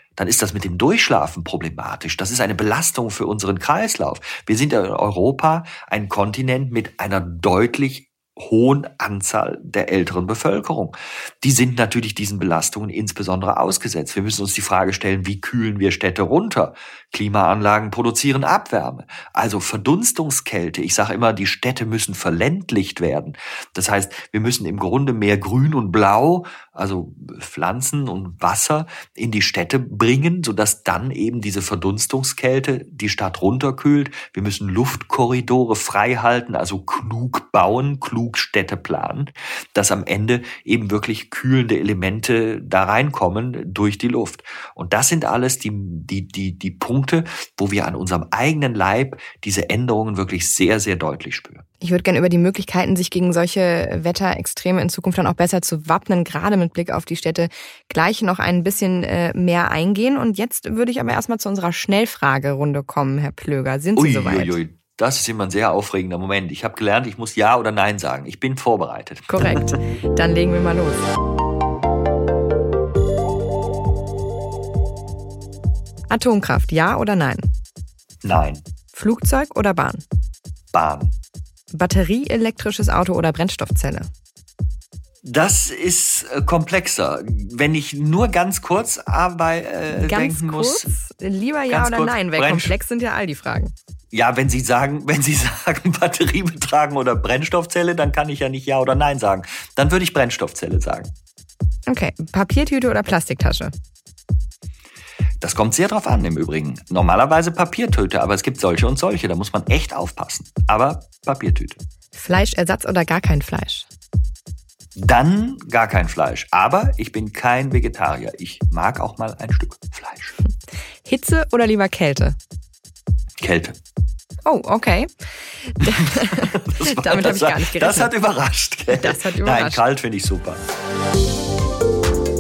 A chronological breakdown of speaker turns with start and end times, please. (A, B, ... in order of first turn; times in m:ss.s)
0:00.2-0:51.6 A
0:51.8-1:04.5 B
1:04.0-1:09.7 A
1:09.3-1:11.1 B
1:16.1-1:17.5 B
1:18.2-1:18.6 A
1:18.9-1:20.0 B
1:20.7-1:21.1 A
1:21.7-1:24.1 B
1:25.2-1:30.9 A
1:29.9-1:33.7 B
1:31.7-1:32.7 A
1:34.1-1:41.1 A
1:41.9-1:43.7 B
1:45.4-1:51.8 A
1:52.1-1:53.9 B
1:55.0-2:00.3 A
2:01.0-2:02.4 B
2:03.4-2:03.8 A
2:04.4-2:08.1 B
2:06.2-2:10.6 A
2:08.9-2:09.8 B